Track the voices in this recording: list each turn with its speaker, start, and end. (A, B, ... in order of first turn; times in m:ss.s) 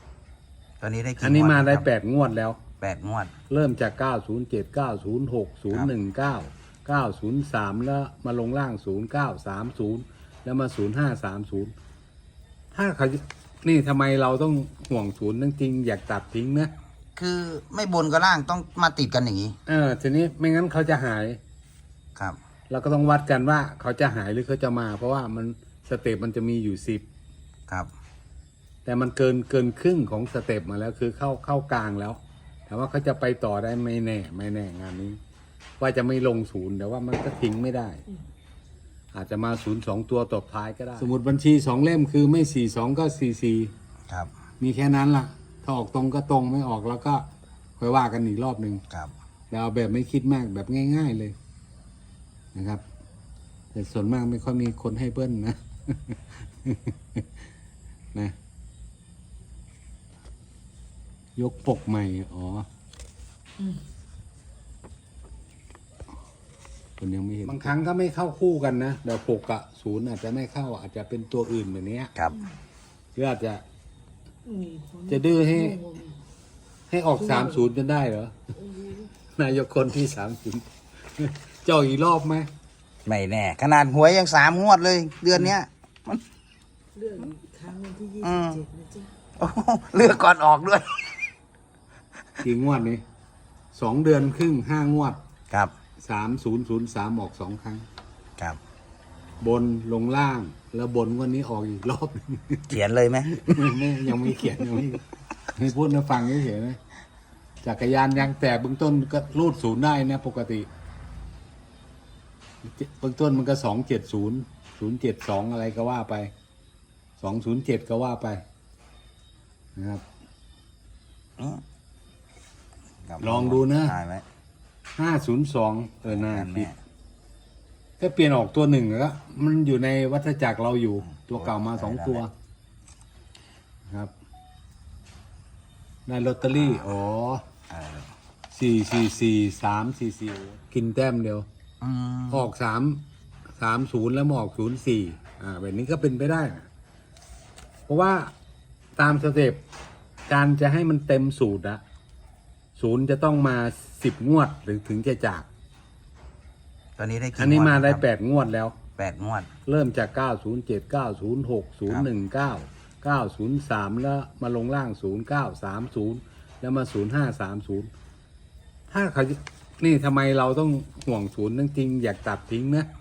0:00.8-0:01.8 A
0:01.2-0:02.6 B
0:02.8-0:03.3 A
0:03.5-0:11.7 B
0:12.7-0:16.7 B
0:17.2-0:19.6 A
0:19.7-0:21.4 B
0:22.7-0:27.0 B
0:28.8-0:35.2 B
0:35.8-0:38.0 B
0:39.1-0:43.7 B
0:44.6-0:47.2 B
0:47.8-0:48.8 B
0:49.5-0:51.3 B
0:52.5-0:52.8 B
0:53.7-0:57.3 B
1:01.4-1:02.7 B
1:07.0-1:12.1 B
1:12.1-1:12.4 A
1:13.2-1:13.6 B
1:14.5-1:16.0 C
1:15.1-1:15.8 B
1:16.9-1:18.3 B
1:19.3-1:22.5 B
1:23.0-1:26.2 A
1:27.0-1:29.1 C
1:28.2-1:28.6 A
1:29.4-1:31.2 A
1:32.4-1:33.0 B
1:33.7-1:35.2 B
1:36.0-1:37.8 B
1:39.4-1:42.7 B
1:42.7-1:43.8 A
1:43.4-1:46.8 B
1:47.6-1:50.7 B
1:52.6-1:56.3 B
1:57.2-1:58.4 B
1:59.8-2:00.0 B
2:01.4-2:01.6 A
2:03.0-2:04.2 A
2:03.2-2:03.9 B
2:05.0-2:06.7 B
2:06.0-2:06.8 A
2:08.0-2:12.3 B
2:11.2-2:12.2 A
2:16.1-2:17.4 B
2:17.7-2:18.1 A
2:18.5-2:21.4 B
2:21.8-2:22.5 A
2:22.3-2:23.0 B
2:23.6-2:26.7 B
2:27.9-2:28.3 B
2:29.0-2:29.6 B
2:30.3-2:31.8 B
2:32.8-2:35.5 B
2:37.0-2:38.0 A
2:37.4-2:38.8 B
2:39.0-2:39.5 A
2:39.6-2:47.9 B
2:48.9-2:52.9 B